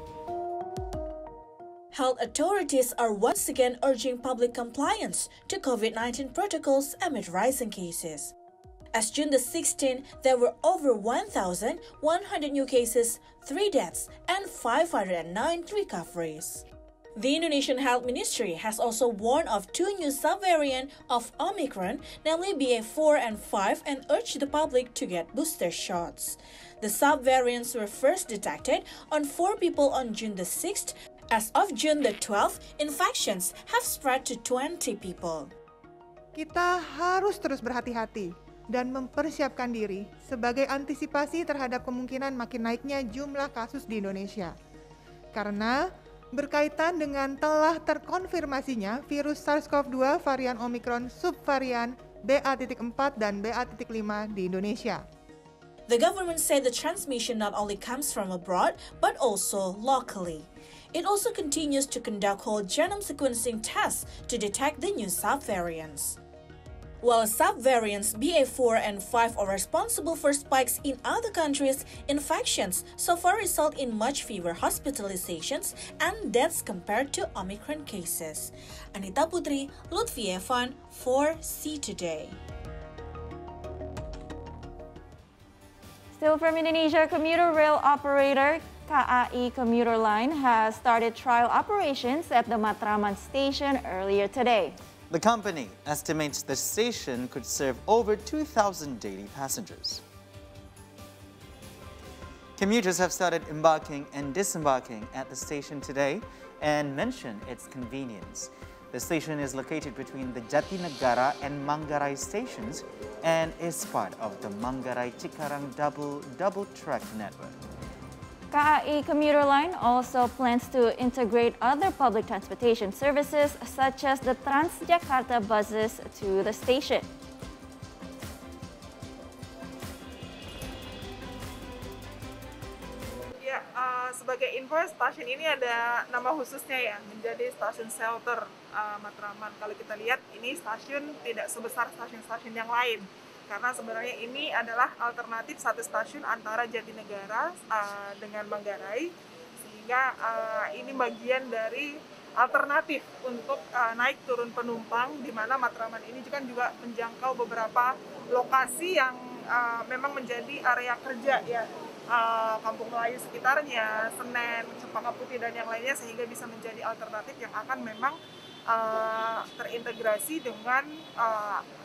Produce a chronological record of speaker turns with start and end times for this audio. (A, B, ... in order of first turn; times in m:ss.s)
0:01.9-0:08.3 A
0:08.9-0:35.5 A
0:36.4-0:44.5 B
0:45.3-0:45.8 B
0:46.3-0:55.0 B
0:55.9-1:06.2 A
1:07.0-1:22.4 A
1:26.1-1:34.8 C
1:35.1-1:40.0 D
1:42.6-1:57.6 D
1:58.5-2:07.1 C
2:13.4-2:48.2 E
2:48.7-2:51.7 E